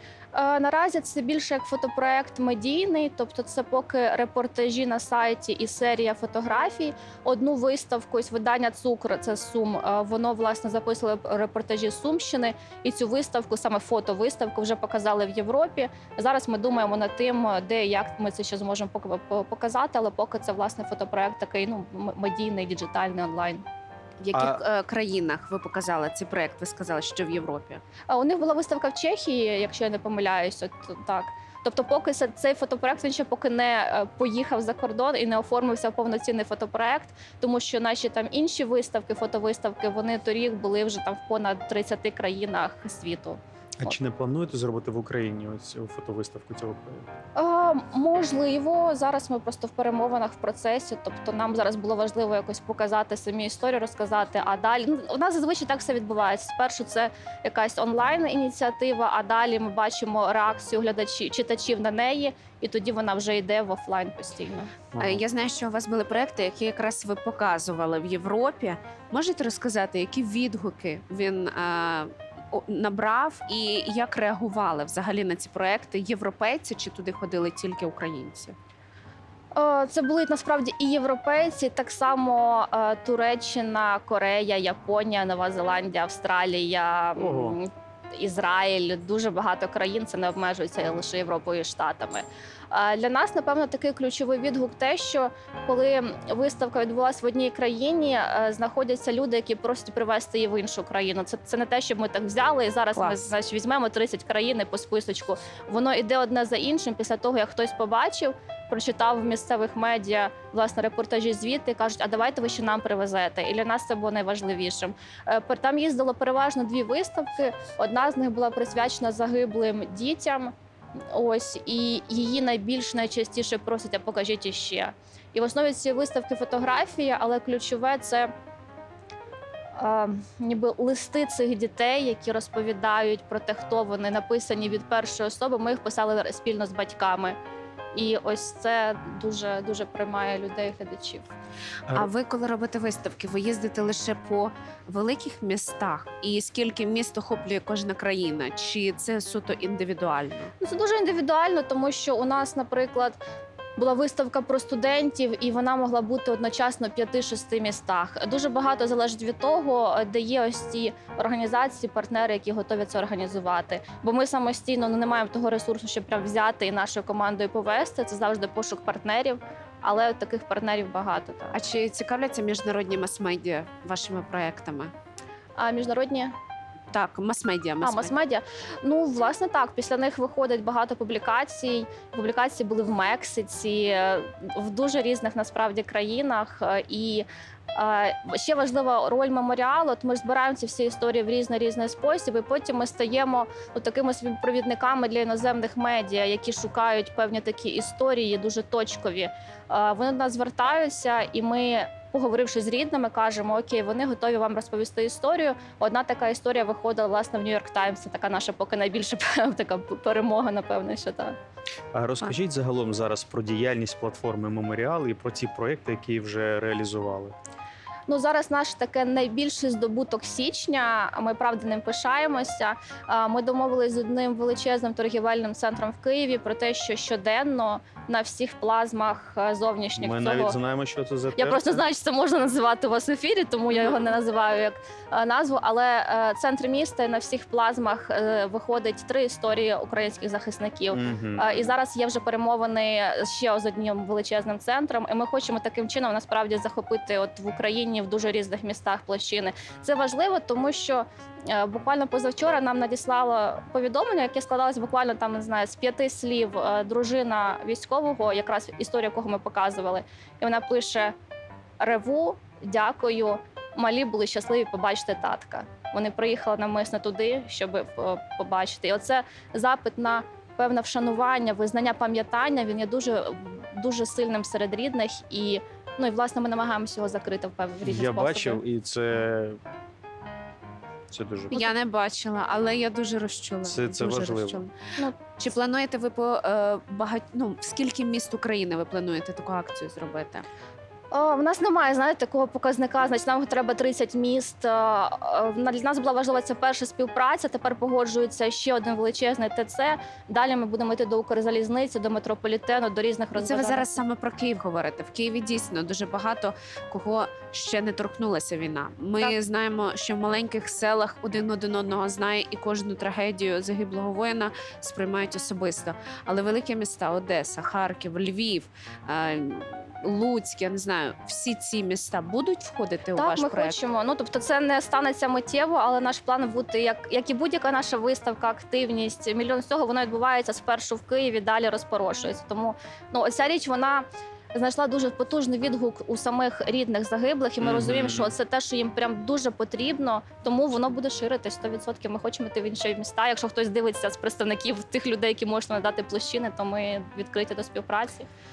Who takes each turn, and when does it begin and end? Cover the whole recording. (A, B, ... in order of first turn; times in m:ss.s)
0:00.3-0:23.6 A
0:24.2-0:27.8 B
0:24.3-0:24.6 C
0:28.1-0:44.0 A
0:43.8-0:47.1 C
0:47.3-1:04.7 A
1:04.9-1:05.2 C
1:05.0-1:18.6 B
1:19.5-2:00.5 A
1:27.2-1:27.6 C
1:42.9-1:43.3 B
2:01.1-2:08.3 A
2:09.8-2:17.4 A
2:17.9-2:21.3 A
2:21.9-2:30.5 B
2:30.6-2:33.2 A
2:33.8-2:51.6 A
2:51.5-2:54.9 B
2:55.6-2:56.3 A
2:56.9-2:58.1 B
2:57.8-3:31.4 A
3:31.9-3:37.3 C
3:38.1-3:50.6 A
3:50.0-3:51.8 C
3:51.4-4:21.1 A
4:00.9-4:01.6 C
4:21.8-4:38.6 A
4:37.8-4:39.6 C
4:41.1-4:41.6 C
4:41.5-4:44.7 B
4:43.6-4:44.6 C
4:45.4-4:50.4 B
4:51.1-5:04.0 A
5:03.4-5:23.8 B
5:23.1-5:48.3 A
5:37.6-5:38.3 C